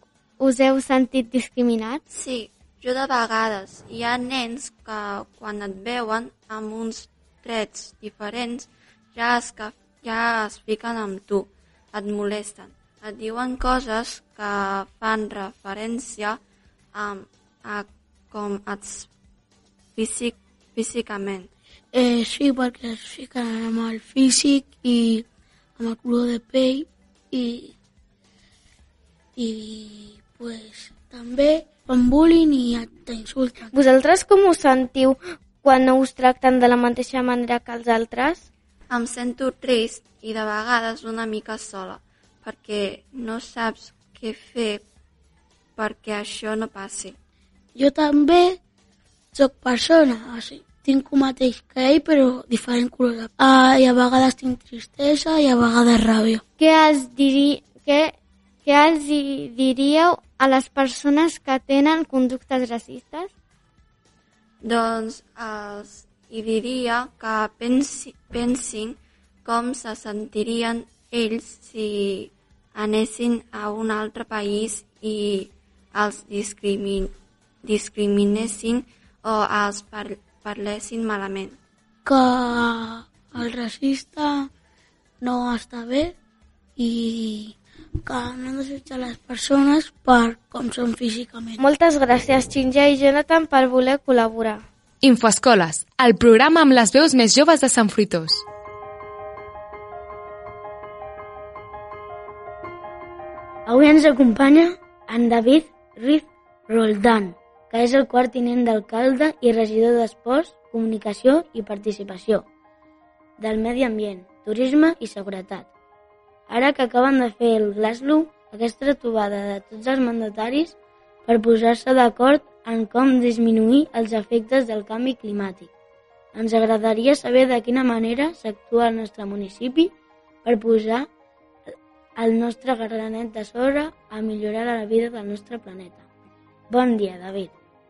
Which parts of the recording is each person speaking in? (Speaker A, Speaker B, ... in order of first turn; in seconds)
Speaker A: 0.4-2.0, 56.6-58.1, 58.6-63.3
Speaker B: 2.1-16.4, 16.9-19.1, 19.9-21.5, 38.9-44.8, 45.8-47.2, 64.6-77.1, 77.6-81.6
Speaker C: 21.9-25.2, 25.8-27.7, 29.4-33.7, 47.8-48.6, 49.3-56.4, 82.0-84.5, 85.2-86.1, 86.8-91.6
Speaker D: 33.7-38.5, 91.6-94.7
Speaker E: 95.0-98.4
Speaker F: 103.7-112.5, 113.4-115.7, 116.5-125.7, 126.3-131.1, 132.2-136.0, 136.7-137.5